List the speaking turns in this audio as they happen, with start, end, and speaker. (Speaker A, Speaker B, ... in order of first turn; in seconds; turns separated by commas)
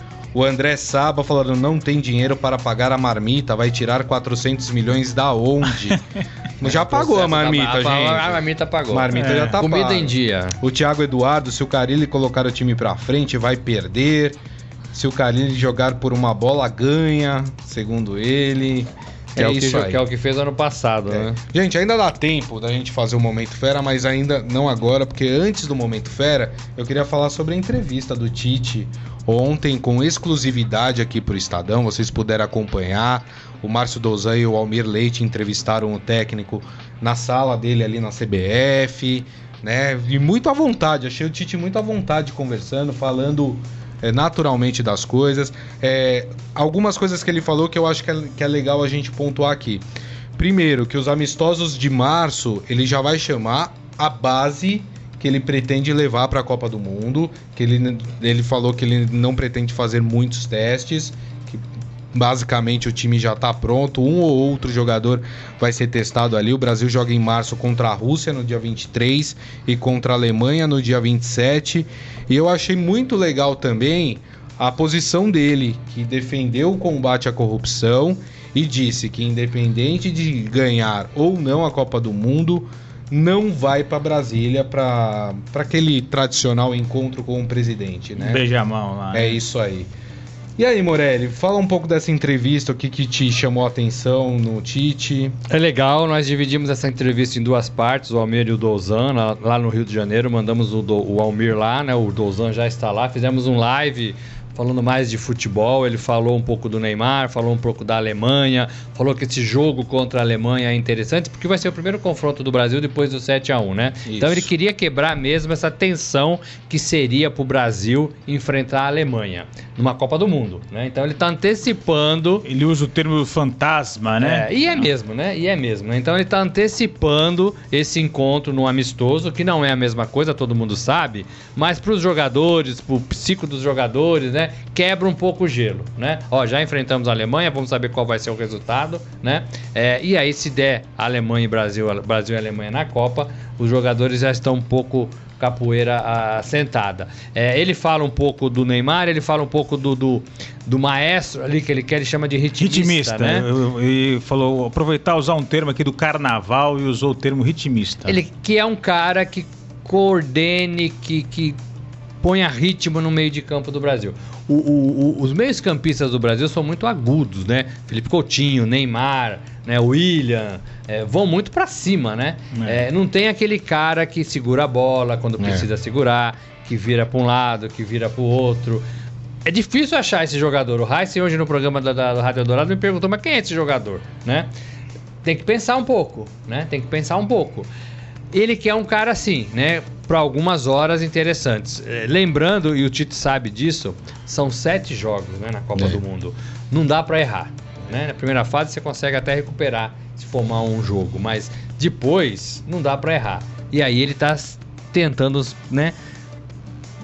Speaker A: 0.3-6.0, Speaker A: 6.6-14.4, Speaker B: 6.6-10.6, Speaker C: 9.1-9.6, Speaker A: 14.9-20.0, Speaker B: 19.3-21.4, Speaker A: 21.1-49.8, Speaker A: 50.4-88.4, Speaker C: 88.2-89.4, Speaker A: 89.1-89.9, Speaker A: 90.6-95.4, Speaker B: 95.5-122.5, Speaker A: 114.0-114.5, Speaker C: 122.4-124.5, Speaker B: 124.2-153.4, Speaker C: 152.6-158.2, Speaker B: 158.1-161.6, Speaker B: 162.2-178.8, Speaker C: 172.5-172.9, Speaker A: 175.4-175.7, Speaker B: 179.4-184.5, Speaker B: 185.2-187.7, Speaker B: 188.3-205.9